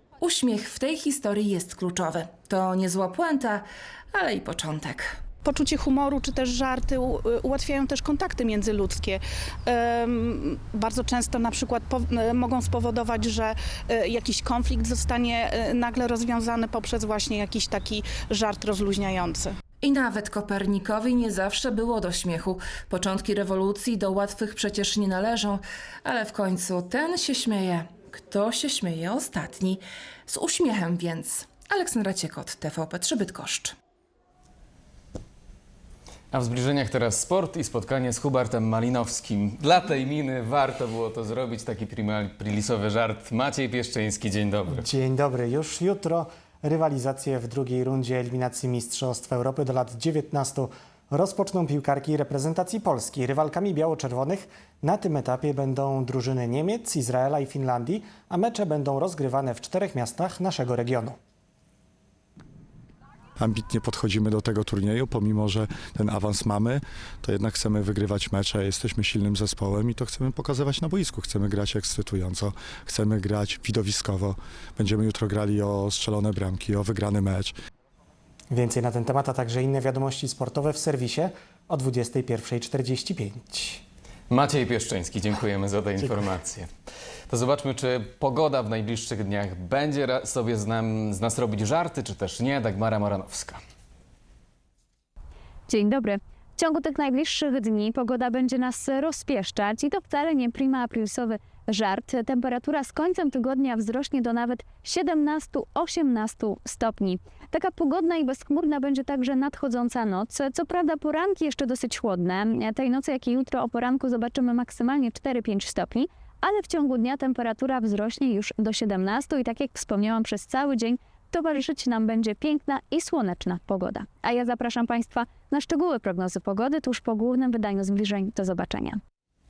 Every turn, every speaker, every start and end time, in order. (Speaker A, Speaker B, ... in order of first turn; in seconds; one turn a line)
Speaker A: 0.2-5.2
Speaker B: 5.4-19.5
Speaker A: 19.8-33.7
Speaker C: 36.3-44.9
Speaker D: 44.7-61.2
Speaker E: 63.4-77.5
Speaker D: 78.5-83.8
Speaker C: 84.3-86.7
Speaker C: 87.3-93.6
Speaker F: 95.7-129.0